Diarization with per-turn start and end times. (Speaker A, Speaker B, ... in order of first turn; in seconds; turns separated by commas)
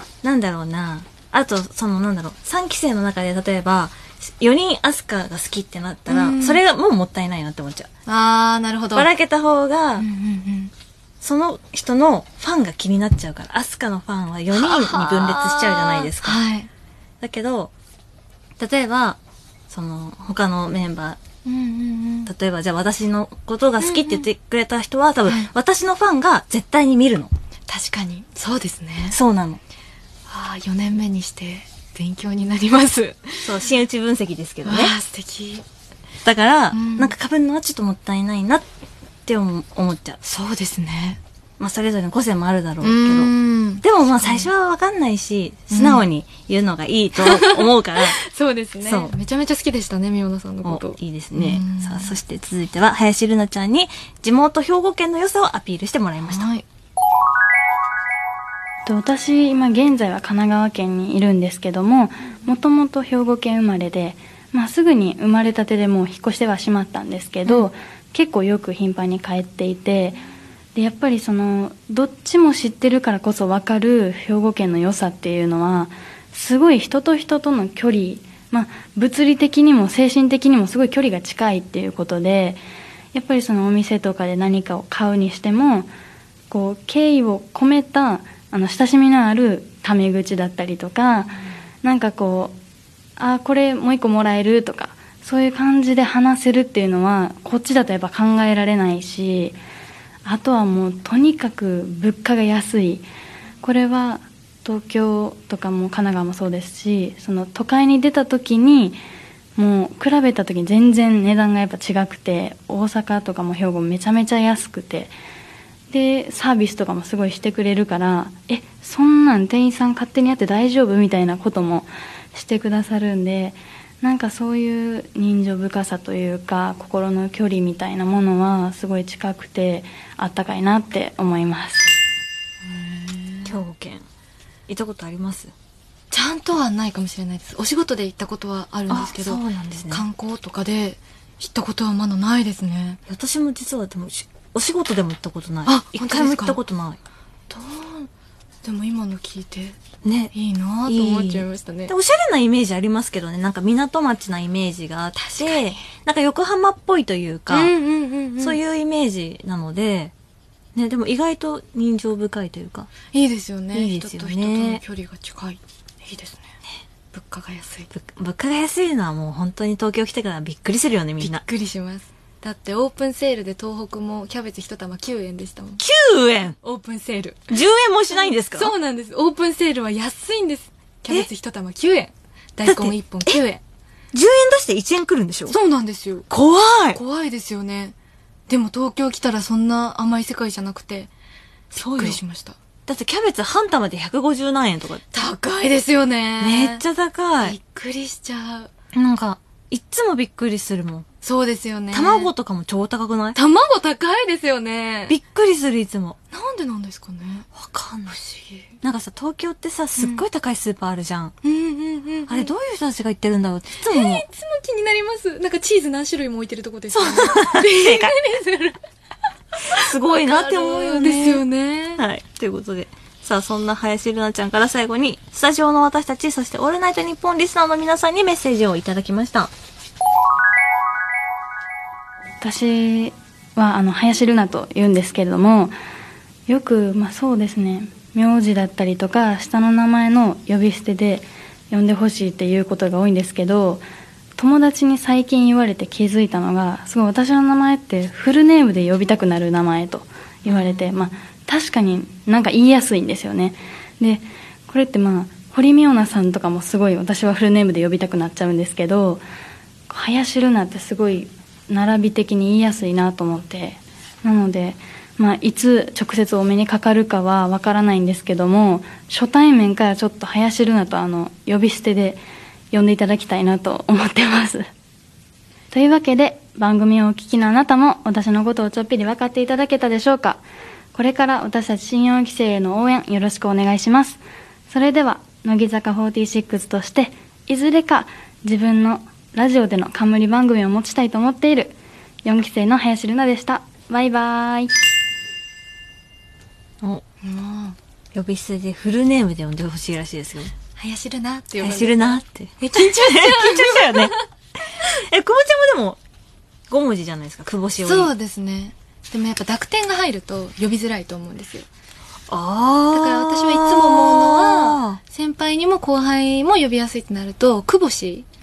Speaker A: 0.2-7.9, Speaker B: 6.1-6.6, Speaker B: 8.1-9.1, Speaker A: 8.9-10.1, Speaker B: 10.0-10.7, Speaker A: 11.2-16.4, Speaker B: 14.5-16.7, Speaker A: 17.2-17.7, Speaker A: 18.6-19.2, Speaker A: 19.7-21.2, Speaker B: 21.5-22.3, Speaker A: 22.3-27.3, Speaker B: 23.8-24.3, Speaker B: 25.3-25.5, Speaker B: 27.7-29.2, Speaker A: 29.1-29.6, Speaker B: 30.3-33.5, Speaker A: 33.4-34.9, Speaker B: 34.6-35.6, Speaker A: 36.2-38.7, Speaker B: 36.7-37.1, Speaker A: 39.3-40.2, Speaker B: 40.2-41.2, Speaker A: 41.6-48.2, Speaker B: 42.8-44.5, Speaker B: 45.7-46.0, Speaker B: 47.2-52.2, Speaker A: 48.8-49.1, Speaker A: 50.6-56.5, Speaker B: 56.2-56.7, Speaker C: 58.9-70.2, Speaker C: 70.8-82.6, Speaker C: 83.1-85.9, Speaker C: 86.5-92.5, Speaker C: 93.2-99.6, Speaker C: 100.2-103.1, Speaker C: 103.6-109.0, Speaker C: 109.6-115.1, Speaker C: 115.9-131.9, Speaker B: 132.6-133.6, Speaker A: 133.5-134.1, Speaker A: 134.7-135.5, Speaker B: 136.1-143.0, Speaker A: 138.9-140.0, Speaker A: 143.1-147.0, Speaker B: 145.7-146.6, Speaker B: 147.5-148.1, Speaker B: 148.6-149.8, Speaker A: 150.0-150.3, Speaker B: 150.3-151.9, Speaker A: 150.9-157.7, Speaker B: 155.2-155.9, Speaker B: 157.5-158.6, Speaker A: 158.4-160.1, Speaker A: 160.8-162.9, Speaker B: 163.1-166.5, Speaker A: 163.7-164.8, Speaker B: 167.1-167.9, Speaker A: 167.9-171.4, Speaker B: 171.2-175.8, Speaker A: 175.8-176.6, Speaker B: 176.6-177.6, Speaker A: 177.5-178.7, Speaker B: 178.2-183.6, Speaker A: 182.7-183.4, Speaker A: 184.1-185.6, Speaker B: 185.5-186.3, Speaker A: 186.3-187.0, Speaker B: 186.9-187.9, Speaker B: 188.5-191.1, Speaker A: 191.7-192.2, Speaker B: 191.8-192.6, Speaker A: 192.9-195.0, Speaker B: 195.1-196.8, Speaker A: 196.4-197.6, Speaker B: 197.4-198.7, Speaker A: 198.9-201.1, Speaker B: 201.2-202.3, Speaker A: 201.9-203.4, Speaker B: 203.3-205.2, Speaker A: 205.1-206.2, Speaker B: 206.3-207.5, Speaker A: 207.6-208.2, Speaker B: 208.1-208.8, Speaker A: 208.8-211.3, Speaker B: 210.0-210.2, Speaker B: 211.4-212.5, Speaker A: 212.3-214.2, Speaker B: 213.8-218.8, Speaker A: 216.9-218.2, Speaker B: 219.6-222.0, Speaker A: 219.7-221.4, Speaker A: 222.0-229.5, Speaker C: 232.4-235.7, Speaker C: 236.5-243.8, Speaker C: 244.4-259.2, Speaker B: 250.5-251.0, Speaker C: 259.9-274.7, Speaker C: 275.7-280.4, Speaker C: 280.9-294.7, Speaker B: 297.2-297.8, Speaker A: 298.1-300.5, Speaker B: 300.8-304.2, Speaker A: 301.6-304.1, Speaker A: 304.9-306.0, Speaker A: 306.7-308.1, Speaker B: 307.8-311.7, Speaker A: 312.3-315.0, Speaker B: 312.9-318.3